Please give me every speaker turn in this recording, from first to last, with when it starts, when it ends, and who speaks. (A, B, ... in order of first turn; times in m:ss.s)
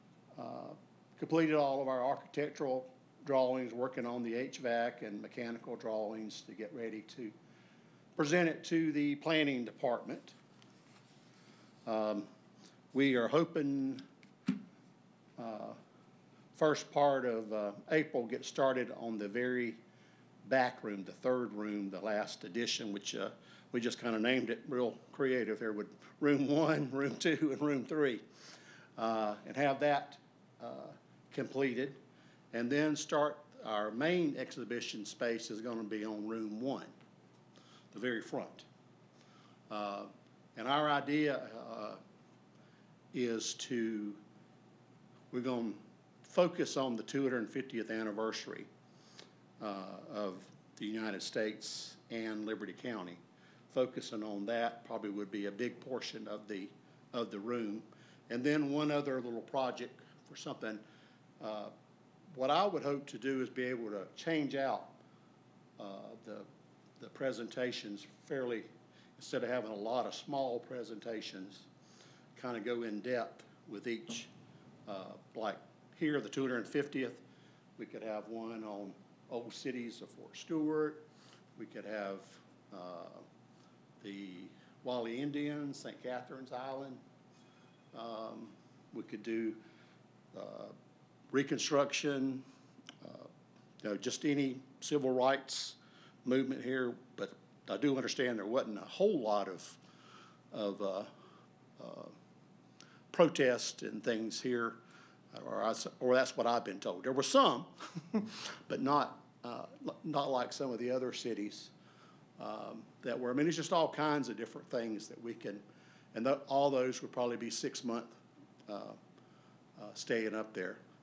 0:00.4-0:07.4 A
0:08.2-0:10.4 A
0:11.8-0:12.3 A
0:12.9-0:14.0 A
0:15.4-0:15.8 A
0:16.6-0:19.8 A
0:20.4-0:28.2 A
0:29.0-0:32.0 A
0:32.5-0:36.9 A
0:37.9-0:38.7 A
0:39.7-0:42.0 A
0:43.1-0:44.2 A
0:45.3-0:48.7 A
0:49.6-1:00.8 A
1:01.4-1:01.7 A
1:02.3-1:05.0 A
1:05.8-1:06.5 A
1:07.0-1:11.7 A
1:12.4-1:14.3 A
1:14.9-1:17.2 A
1:17.8-1:23.2 A
1:24.0-1:27.0 A
1:27.9-1:29.6 A
1:30.3-1:30.8 A
1:31.3-1:32.4 A
1:33.0-1:39.8 A
1:40.5-1:41.1 A
1:41.8-1:42.2 A
1:43.1-1:44.8 A
1:45.3-1:51.7 A
1:52.4-1:59.0 A
1:59.8-2:00.8 A